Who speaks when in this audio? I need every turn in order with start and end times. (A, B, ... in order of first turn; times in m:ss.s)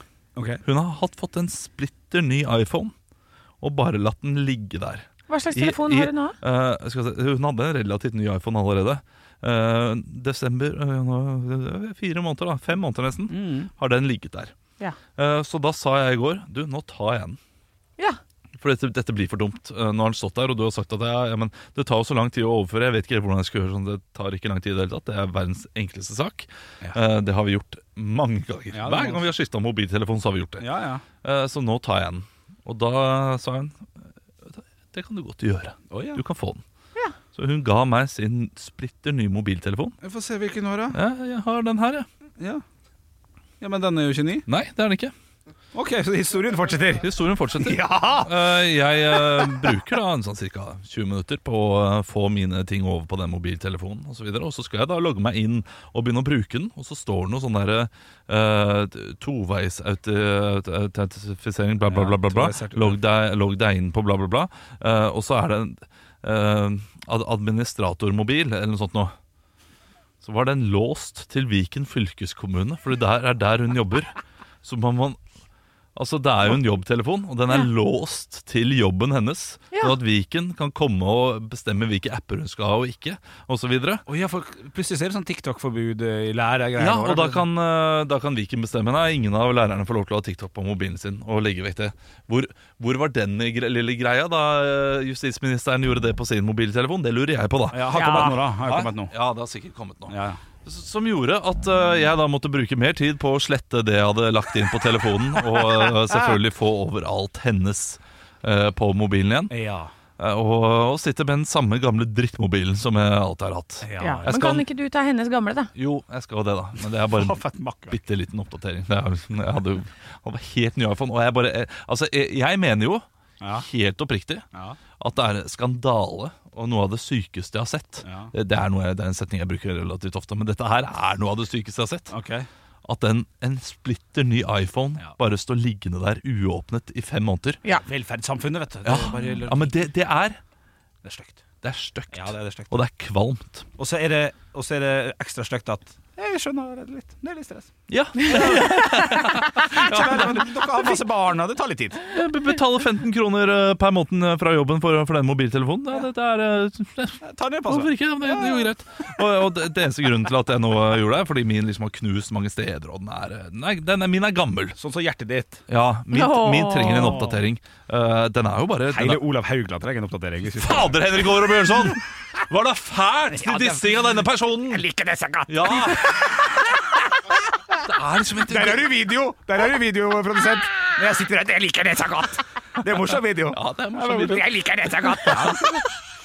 0:00.3-0:00.6 A
0:00.6-0:02.9 B
0:03.6-0:14.5 B
0:05.3-0:06.4 C
0:13.3-0:13.7 A
0:15.2-0:17.4 B
0:18.6-0:30.6 B
0:28.7-0:29.2 A
0:30.6-0:31.0 A
0:31.2-0:33.8 B
0:34.4-0:36.6 B
0:35.9-0:36.2 A
0:37.3-0:40.0 B
0:40.0-0:41.0 A
0:40.9-0:42.1 B
0:43.6-0:44.4 A
0:44.5-0:45.1 B
0:45.7-0:48.5 A
0:47.0-1:09.1 B
0:49.1-0:49.7 A
1:01.8-1:03.0 A
1:10.2-1:14.1 B
1:14.6-1:15.2 B
1:16.0-1:24.0 B
1:24.1-1:27.4 A
1:26.8-1:49.5 B
1:37.7-1:39.1 A
1:37.9-1:38.4 C
1:40.1-1:40.4 A
1:49.5-1:49.9 A
1:50.2-1:54.6 B
1:53.8-1:54.3 A
1:54.0-1:55.7 C
1:55.8-1:57.4 B
1:57.0-1:58.0 A
1:57.9-2:03.0 B
2:03.4-2:03.6 A
2:03.6-2:04.4 B
2:05.0-2:12.1 B
2:08.0-2:08.3 A
2:12.1-2:12.5 A
2:12.8-2:17.6 B
2:17.8-2:19.8 A
2:18.8-2:20.4 B
2:21.0-2:21.4 A
2:21.6-2:23.6 B
2:22.1-2:22.7 A
2:23.8-2:27.7 A
2:27.9-2:30.7 B
2:28.2-2:28.7 A
2:28.8-2:29.2 C
2:29.6-2:32.0 A
2:32.1-2:44.8 B
2:37.2-2:38.6 A
2:44.8-2:45.6 A
2:45.7-2:49.2 B
2:46.1-2:47.3 C
2:46.9-2:47.4 A
2:48.9-2:51.5 A
2:50.6-2:54.8 B
2:53.3-2:54.1 A
2:54.6-2:56.6 A
2:55.5-2:56.2 B
2:57.7-2:58.9 B
2:58.4-3:05.9 A
3:03.5-3:05.7 B